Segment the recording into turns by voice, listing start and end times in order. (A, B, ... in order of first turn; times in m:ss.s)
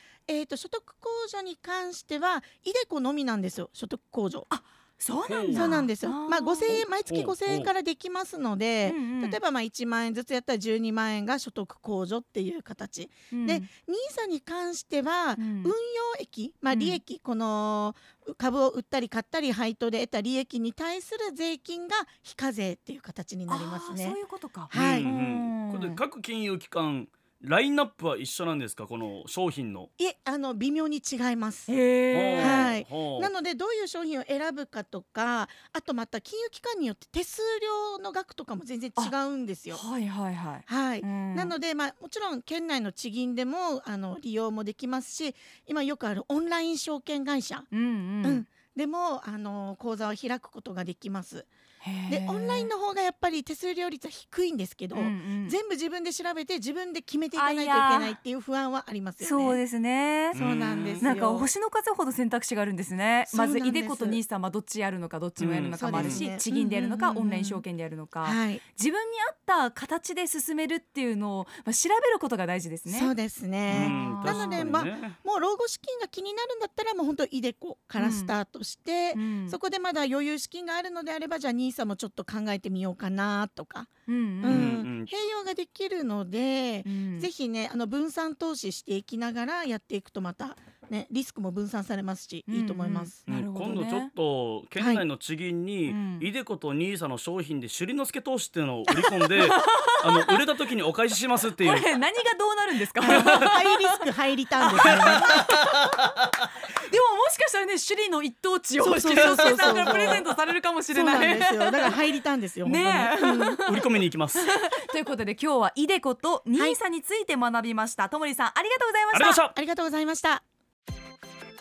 0:00.3-0:04.5 A
0:04.5-0:06.8 B
0:05.2-0:05.7 C
0:05.5-0:24.2 A
0:06.7-0:07.7 C
0:08.8-0:09.4 B
0:13.3-0:13.7 B
0:15.4-0:15.7 B
0:16.7-0:17.0 B
0:23.5-0:26.0 B
0:24.7-0:29.9 C
0:24.7-0:25.1 A
0:30.0-0:31.7 A
0:31.7-0:32.7 B
0:32.1-0:33.3 C
0:32.4-0:39.8 A
0:39.7-0:41.5 B
0:40.6-0:47.7 A
0:47.7-0:48.4 B
0:48.2-0:51.5 A
0:51.8-0:52.7 B
0:52.1-0:59.6 A
0:54.9-0:55.6 B
0:57.3-0:58.2 B
0:59.2-1:00.4 B
1:00.3-1:01.5 A
1:00.3-1:01.1 C
1:01.0-1:13.1 B
1:03.3-1:04.2 A
1:05.4-1:06.2 C
1:05.8-1:07.6 A
1:08.2-1:08.6 A
1:12.9-1:23.9 A
1:13.7-1:15.2 C
1:13.7-1:14.7 B
1:18.0-1:18.3 B
1:19.1-1:19.6 B
1:24.1-1:24.7 B
1:24.4-1:33.2 A
1:24.5-1:25.1 C
1:26.8-1:27.3 B
1:32.5-1:34.1 B
1:33.3-1:41.9 C
1:34.8-1:35.0 A
1:35.9-1:36.3 B
1:38.9-1:40.4 B
1:41.6-1:44.0 B
1:43.0-1:45.4 A
1:43.1-1:43.5 C
1:44.8-1:46.0 B
1:44.9-1:45.8 C
1:46.8-1:52.0 B
1:48.8-1:50.3 A
1:49.0-1:50.3 C
1:50.9-1:53.6 A
1:52.6-1:59.4 B
1:53.6-1:54.4 C
1:59.1-1:59.6 C
1:59.5-2:00.4 A